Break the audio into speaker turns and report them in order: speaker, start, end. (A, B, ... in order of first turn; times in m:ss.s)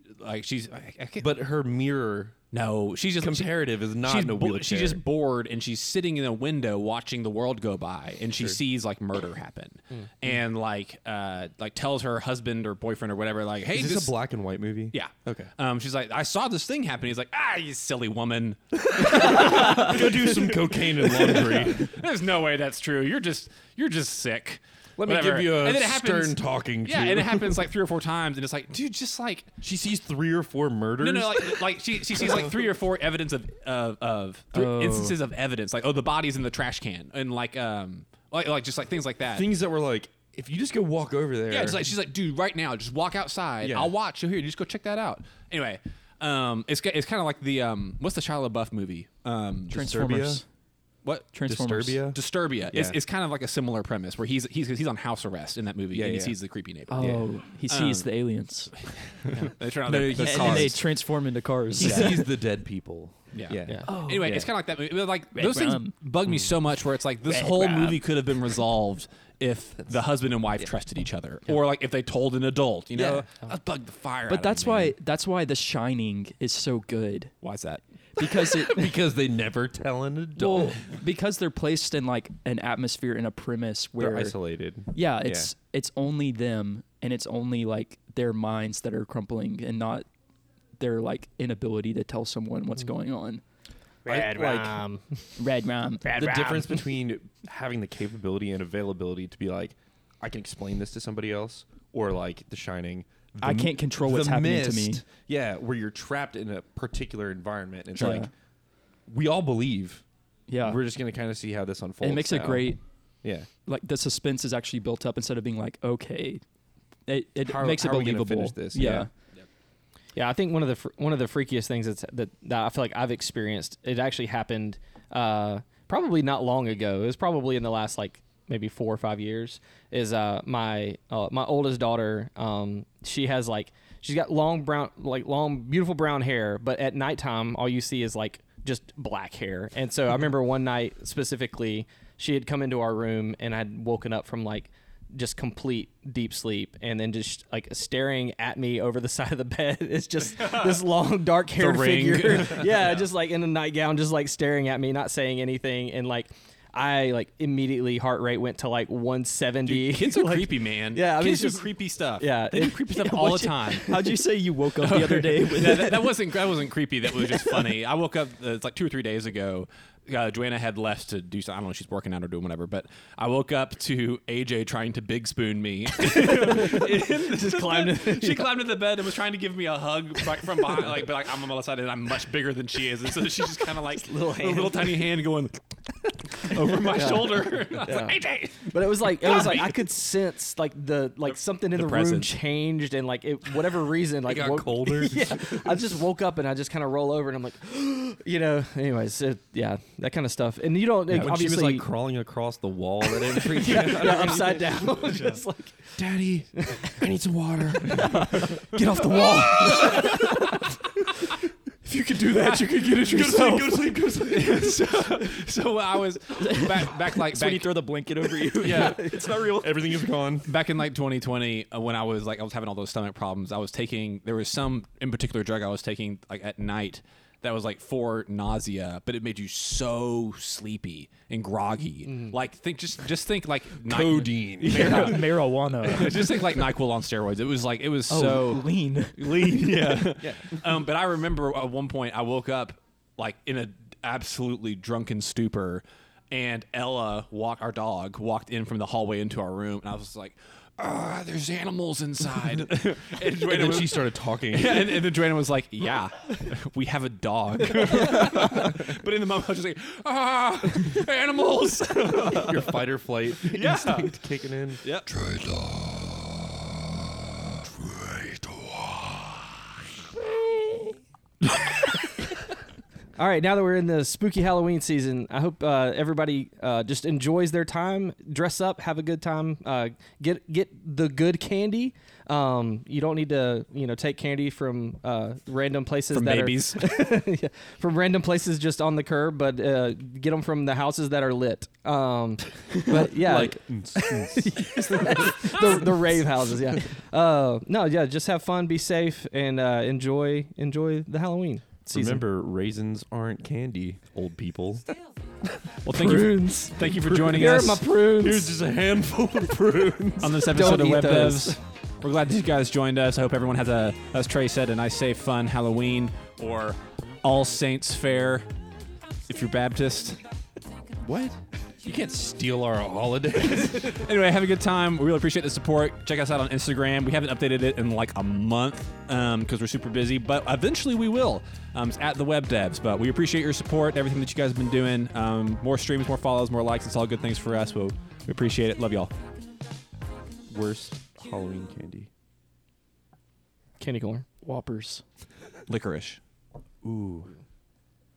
0:00.2-0:01.3 A
0:01.2-0:02.4 B
0:02.5-0:14.1 A
0:03.2-0:05.0 B
0:13.7-0:15.5 B
0:14.9-0:29.6 A
0:19.0-0:21.9 B
0:25.0-0:27.6 B
0:29.6-0:31.7 B
0:31.0-0:39.5 A
0:34.5-0:35.2 C
0:39.3-0:41.8 B
0:41.5-0:49.8 A
0:43.6-0:43.9 B
0:49.7-0:50.4 C
0:49.7-0:50.4 B
0:51.0-0:51.3 A
0:51.3-0:52.0 C
0:51.5-0:53.0 B
0:52.1-0:58.1 A
0:55.9-0:56.4 B
0:56.9-0:58.8 C
0:57.0-0:57.2 B
0:59.2-1:00.8 A
0:59.9-1:00.8 B
0:59.9-1:02.4 C
1:01.8-1:03.9 B
1:01.8-1:02.1 A
1:03.3-1:14.9 A
1:03.6-1:03.9 D
1:03.8-1:04.5 C
1:05.3-1:05.9 C
1:07.3-1:08.0 C
1:14.3-1:17.4 C
1:17.4-1:18.5 A
1:18.2-1:18.9 C
1:18.6-1:20.8 B
1:20.4-1:24.3 C
1:24.0-1:25.5 B
1:24.9-1:30.0 C
1:30.8-1:33.4 C
1:34.0-1:35.0 D
1:34.0-1:34.8 B
1:35.4-1:36.2 C
1:36.0-1:36.9 D
1:36.1-1:48.3 B
1:43.4-1:45.0 C
1:47.9-1:48.3 C
1:48.0-1:48.2 A
1:49.1-1:50.0 B
1:50.5-1:50.8 C
1:50.6-1:53.5 B
1:52.0-1:52.8 C
1:53.6-1:56.4 C
1:57.1-1:59.1 C
1:57.4-1:59.1 B
2:00.1-2:43.3 D
2:30.4-2:30.8 A
2:31.6-2:33.0 A
2:39.6-2:43.9 A
2:42.9-2:46.3 C
2:44.8-3:05.6 A
2:47.3-2:47.6 C
2:56.1-2:58.5 D
3:03.9-3:05.0 D
3:06.2-3:09.8 A
3:06.7-3:21.9 D
3:11.7-3:12.3 A
3:14.2-3:15.8 B
3:21.1-3:25.2 B
3:23.0-3:26.0 D
3:26.0-3:30.6 B
3:26.6-3:27.0 D
3:27.8-3:30.6 D
3:32.1-3:32.6 D
3:32.2-3:35.0 B
3:32.4-3:32.8 A
3:32.5-3:34.0 C
3:34.2-3:37.8 A
3:36.4-3:40.1 C
3:38.6-3:40.5 B
3:40.4-4:22.7 A
3:53.8-3:56.3 B
3:54.6-3:56.4 C
3:58.1-4:00.1 C
4:00.2-4:00.6 B
4:13.3-4:15.1 B
4:22.0-4:25.7 B
4:23.4-4:24.1 A
4:24.8-4:25.1 A
4:28.2-4:29.0 B
4:33.2-5:02.2 D
4:46.1-4:46.9 A
4:52.8-4:55.8 B
5:01.9-5:04.8 B
5:05.8-5:07.8 A
5:05.9-5:08.5 D
5:07.1-5:11.3 B
5:10.2-5:18.5 A
5:10.5-5:11.6 D
5:19.3-5:20.2 A
5:21.0-5:24.0 B
5:23.8-5:39.1 A
5:40.5-5:42.1 B
5:43.8-5:44.2 D
5:44.4-5:45.0 C
5:45.7-5:46.2 A
5:46.8-5:47.3 B